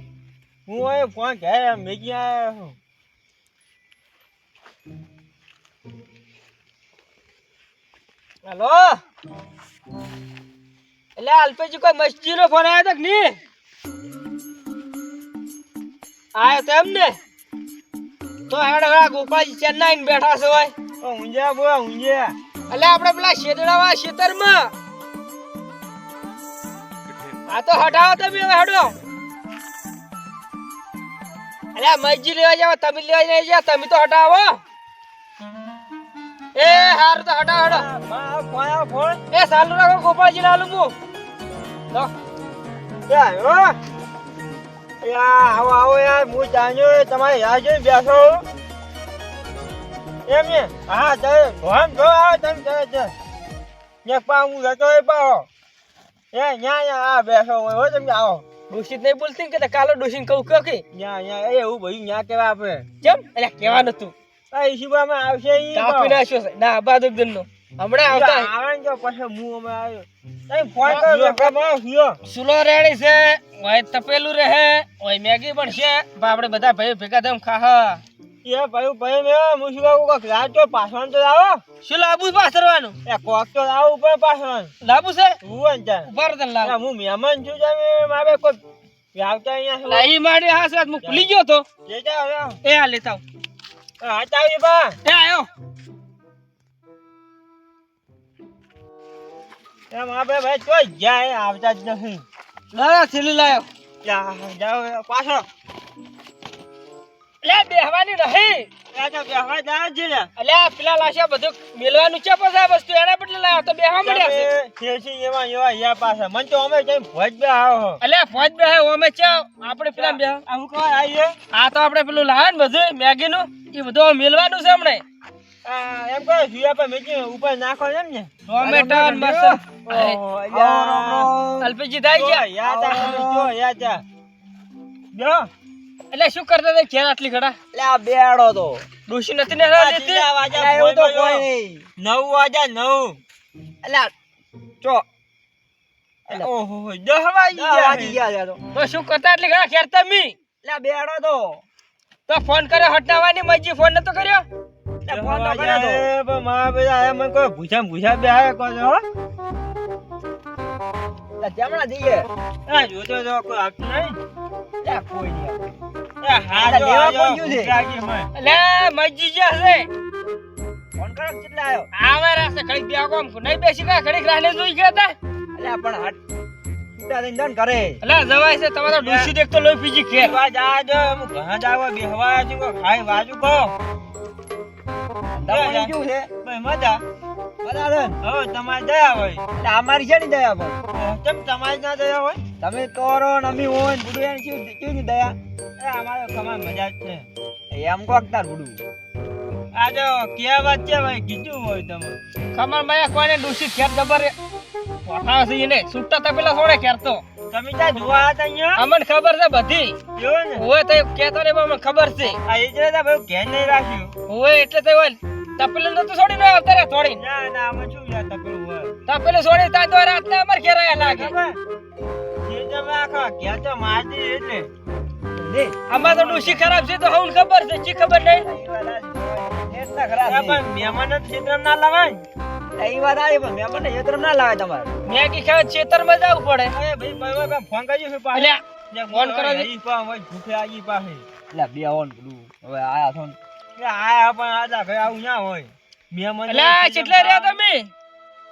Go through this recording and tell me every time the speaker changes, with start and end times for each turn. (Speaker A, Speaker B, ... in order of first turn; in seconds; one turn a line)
Speaker A: 0.7-2.8
Speaker B: 8.4-9.0
Speaker B: 11.2-13.4
Speaker B: 16.3-17.2
Speaker B: 18.5-20.7
Speaker A: 21.0-22.4
Speaker B: 22.7-24.7
Speaker B: 27.5-28.9
Speaker B: 31.7-34.6
Speaker B: 36.5-37.9
Speaker A: 36.6-36.9
Speaker A: 37.6-39.2
Speaker B: 39.3-40.9
Speaker A: 43.1-43.8
Speaker A: 45.0-48.4
Speaker A: 50.3-53.1
Speaker A: 54.0-55.5
Speaker A: 56.3-58.4
Speaker B: 58.7-60.8
Speaker A: 60.9-62.9
Speaker B: 63.0-64.1
Speaker A: 63.6-63.9
Speaker A: 64.5-66.2
Speaker B: 65.7-68.5
Speaker A: 68.0-72.2
Speaker B: 70.8-71.5
Speaker B: 72.2-78.0
Speaker A: 78.4-81.6
Speaker B: 81.8-83.0
Speaker A: 83.0-84.7
Speaker B: 84.8-85.4
Speaker A: 85.4-88.6
Speaker B: 86.1-86.7
Speaker A: 89.1-90.1
Speaker B: 89.8-91.6
Speaker A: 91.0-91.3
Speaker A: 91.8-92.6
Speaker B: 92.6-93.2
Speaker A: 94.0-95.0
Speaker B: 95.0-95.5
Speaker A: 99.9-102.2
Speaker B: 102.7-103.7
Speaker A: 104.0-105.5
Speaker B: 107.4-108.7
Speaker A: 108.9-110.3
Speaker B: 110.4-114.5
Speaker A: 114.0-118.0
Speaker B: 118.0-120.4
Speaker A: 119.9-121.3
Speaker B: 121.5-125.0
Speaker A: 125.6-128.3
Speaker B: 128.5-130.2
Speaker C: 128.6-129.6
Speaker A: 129.9-131.3
Speaker C: 130.5-131.7
Speaker B: 131.6-132.4
Speaker A: 132.1-134.0
Speaker C: 132.6-133.5
Speaker A: 135.1-135.5
Speaker B: 136.1-137.5
Speaker C: 137.7-138.8
Speaker B: 139.1-140.3
Speaker A: 139.7-143.2
Speaker C: 140.5-141.8
Speaker C: 143.8-144.1
Speaker A: 146.3-148.2
Speaker C: 147.5-148.6
Speaker B: 148.7-150.3
Speaker C: 150.6-151.6
Speaker B: 152.3-154.4
Speaker C: 155.0-156.1
Speaker A: 155.1-159.0
Speaker C: 161.4-162.3
Speaker A: 162.7-164.2
Speaker C: 164.8-165.8
Speaker A: 166.2-168.3
Speaker C: 166.5-167.7
Speaker B: 168.3-169.9
Speaker C: 171.0-171.9
Speaker B: 171.9-175.1
Speaker C: 175.5-176.2
Speaker C: 177.0-178.0
Speaker B: 178.0-180.4
Speaker A: 178.9-179.3
Speaker A: 180.1-183.7
Speaker C: 185.3-186.3
Speaker A: 185.5-187.0
Speaker C: 187.6-188.2
Speaker A: 188.2-189.5
Speaker C: 189.6-190.8
Speaker A: 190.9-192.4
Speaker C: 192.6-195.3
Speaker A: 195.8-197.3
Speaker C: 197.7-198.8
Speaker A: 199.7-202.2
Speaker B: 202.5-204.3
Speaker B: 205.0-207.2
Speaker A: 207.5-208.8
Speaker B: 208.8-209.9
Speaker A: 210.2-210.6
Speaker B: 210.6-212.4
Speaker A: 212.4-214.1
Speaker B: 214.3-217.2
Speaker A: 217.1-218.9
Speaker B: 219.1-221.3
Speaker A: 220.9-221.6
Speaker A: 222.4-224.7
Speaker C: 225.3-225.8
Speaker B: 225.9-228.4
Speaker A: 225.9-226.6
Speaker C: 228.4-230.6
Speaker A: 230.2-232.2
Speaker C: 232.8-234.9
Speaker B: 235.0-236.7
Speaker A: 236.7-241.2
Speaker B: 238.3-239.7
Speaker C: 241.5-243.4
Speaker A: 243.8-247.6
Speaker B: 246.5-247.9